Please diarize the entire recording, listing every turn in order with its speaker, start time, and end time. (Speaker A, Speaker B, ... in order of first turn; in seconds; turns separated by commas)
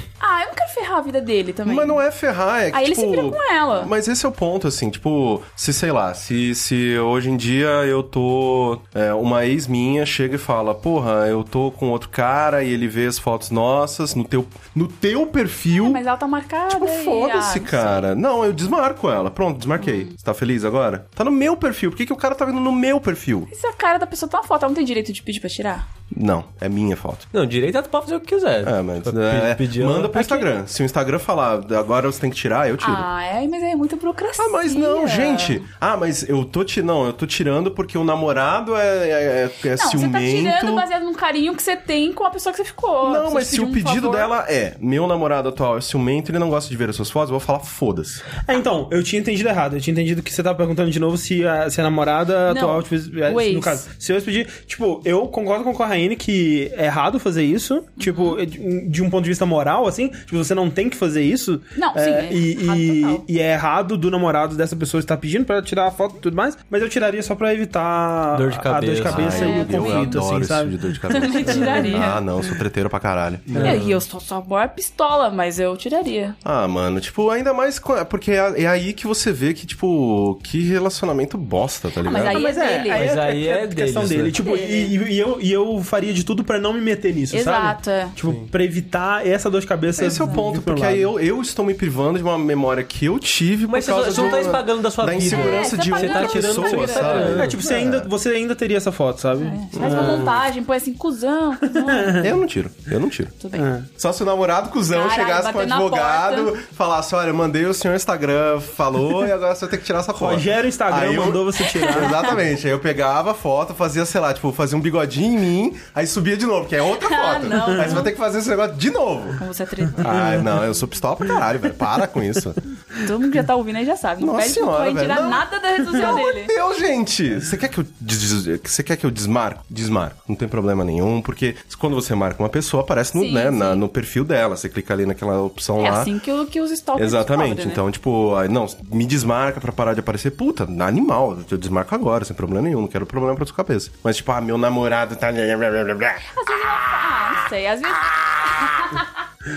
Speaker A: 0.2-2.0, Speaker B: 1.7-16.0, Speaker A: 2.7-3.9, Speaker A: 15.7-18.1, Speaker B: 16.7-23.5, Speaker A: 19.8-20.1, Speaker A: 23.5-25.9, Speaker B: 26.1-27.3, Speaker C: 27.3-30.2, Speaker B: 28.6-33.1, Speaker D: 30.2-30.5, Speaker A: 32.8-35.6, Speaker B: 34.4-40.9, Speaker A: 39.8-44.3, Speaker B: 43.0-48.3, Speaker D: 48.5-72.0, Speaker A: 52.5-53.8, Speaker A: 58.0-58.4, Speaker A: 61.8-63.2, Speaker C: 68.3-69.5, Speaker B: 69.0-73.6, Speaker A: 69.2-70.2, Speaker A: 71.1-72.2, Speaker C: 73.5-74.0, Speaker D: 73.5-73.8, Speaker A: 73.6-76.4, Speaker B: 76.5-82.4, Speaker A: 82.0-83.1, Speaker D: 82.2-91.1, Speaker C: 82.9-84.4, Speaker A: 84.4-85.0, Speaker A: 87.3-88.2, Speaker B: 90.0-98.1, Speaker C: 93.7-97.6, Speaker A: 95.3-97.4, Speaker D: 97.4-100.3, Speaker A: 99.4-102.3, Speaker B: 99.7-100.3, Speaker D: 101.8-102.3, Speaker B: 102.2-103.4, Speaker A: 103.4-103.7, Speaker D: 103.5-103.9, Speaker B: 104.0-119.4, Speaker A: 104.9-106.5, Speaker D: 110.1-112.3, Speaker A: 111.9-112.4, Speaker A: 117.0-118.1, Speaker A: 119.4-120.4, Speaker B: 119.9-122.6, Speaker D: 120.0-120.4, Speaker A: 123.0-126.5, Speaker B: 124.2-136.1, Speaker A: 133.2-133.8, Speaker A: 135.8-137.8, Speaker B: 137.0-146.2, Speaker A: 146.2-149.1